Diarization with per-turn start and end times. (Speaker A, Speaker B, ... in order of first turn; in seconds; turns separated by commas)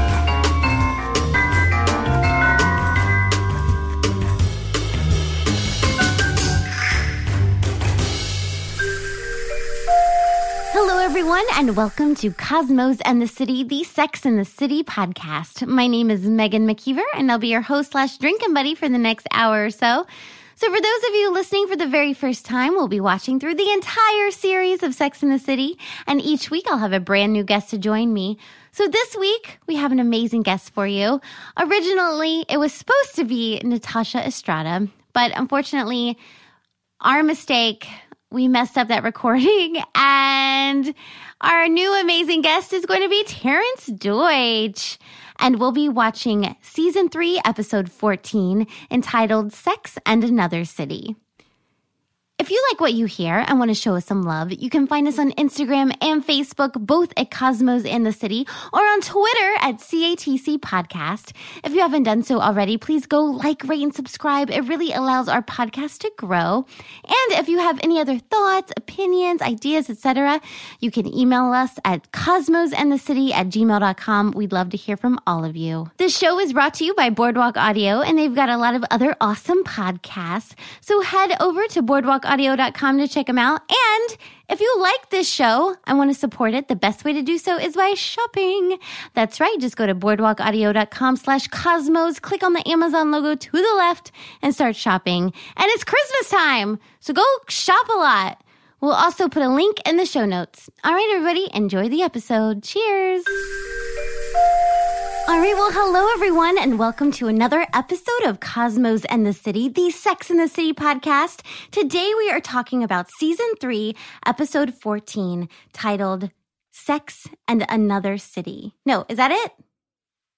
Speaker A: 10.7-20.1, Speaker A: 20.6-36.2, Speaker A: 37.0-51.2, Speaker A: 52.4-103.3, Speaker A: 105.3-119.6